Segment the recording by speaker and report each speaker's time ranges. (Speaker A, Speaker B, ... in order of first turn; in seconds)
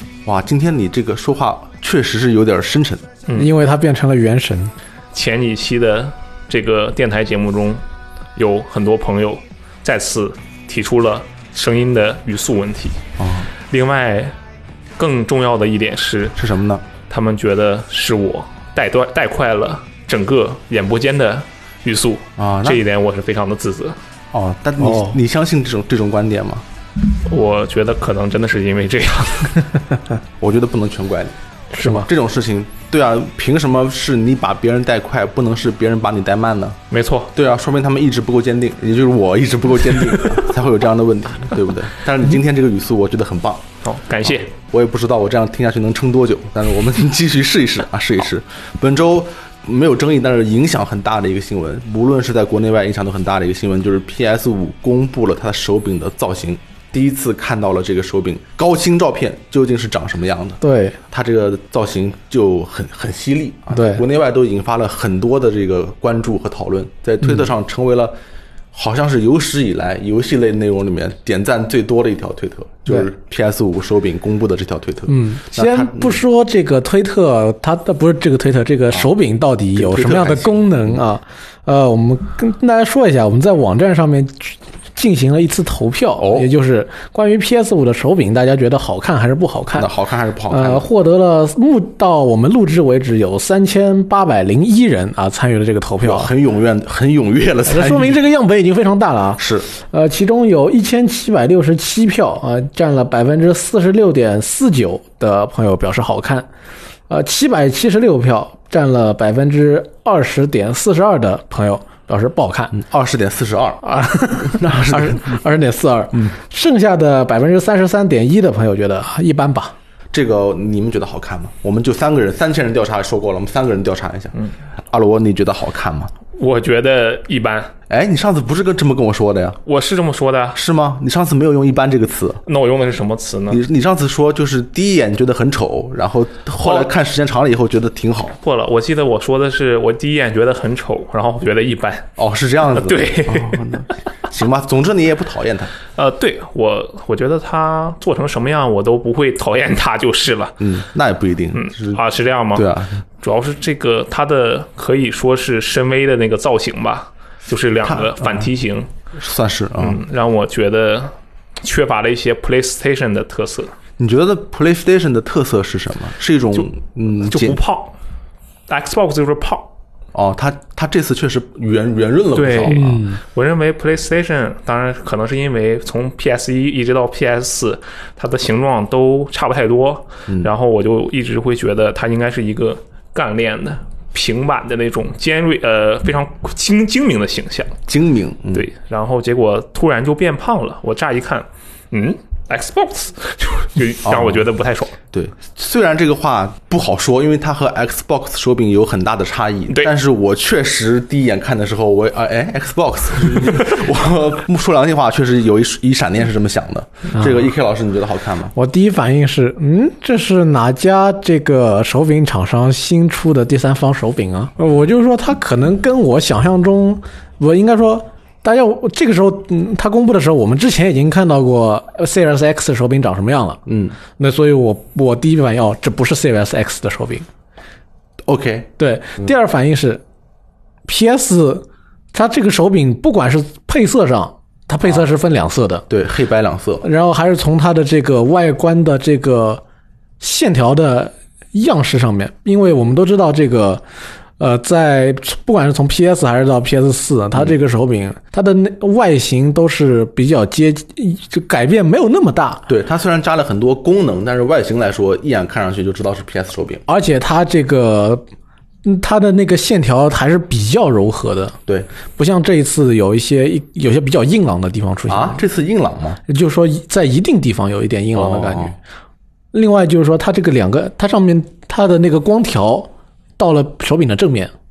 Speaker A: 0.2-3.1, 13.2-13.5, 16.4-16.9, 22.4-22.8, 24.3-26.6, 30.4-36.8, 37.3-43.7, 44.2-68.1, 68.7-76.2, 79.8-80.8, 86.2-86.5, 89.8-90.9, 96.0-98.2, 99.4-99.7, 112.7-113.8, 114.4-115.4, 120.1-124.4, 124.9-126.1, 127.9-129.6, 130.5-132.4, 133.5-138.4, 142.2-145.7, 150.6-152.0, 152.5-153.0, 157.8-158.5, 159.2-160.0, 164.0-167.6, 170.1-173.0, 187.9-188.7, 194.1-194.5, 195.1-208.5, 223.7-224.0, 228.2-228.7, 235.9-236.9, 252.7-256.9, 265.1-266.2, 268.1-268.8
Speaker B: 3.4-4.7, 24.8-25.2, 31.7-32.1, 60.6-61.0, 63.7-64.0, 75.1-89.9, 90.5-96.3, 97.7-106.5, 107.1-112.8, 113.8-119.7, 172.7-173.2, 208.5-223.6, 224.2-227.3, 228.8-230.0, 230.9-235.9, 236.8-239.6, 240.2-243.8, 244.4-252.7, 256.9-258.2, 258.8-261.6, 262.2-265.4, 266.3-268.7, 269.5-274.5
Speaker C: 5.1-7.8, 8.4-13.0, 13.7-14.3, 15.0-16.4, 17.1-24.0, 27.2-29.8, 36.9-37.3, 43.8-44.5, 126.4-127.7, 129.7-130.6, 132.5-133.6, 136.6-136.9, 138.4-142.1, 142.7-143.7, 145.9-150.6, 151.5-158.9, 159.8-163.7, 167.3-168.0, 168.7-169.7, 172.3-187.7, 188.5-195.0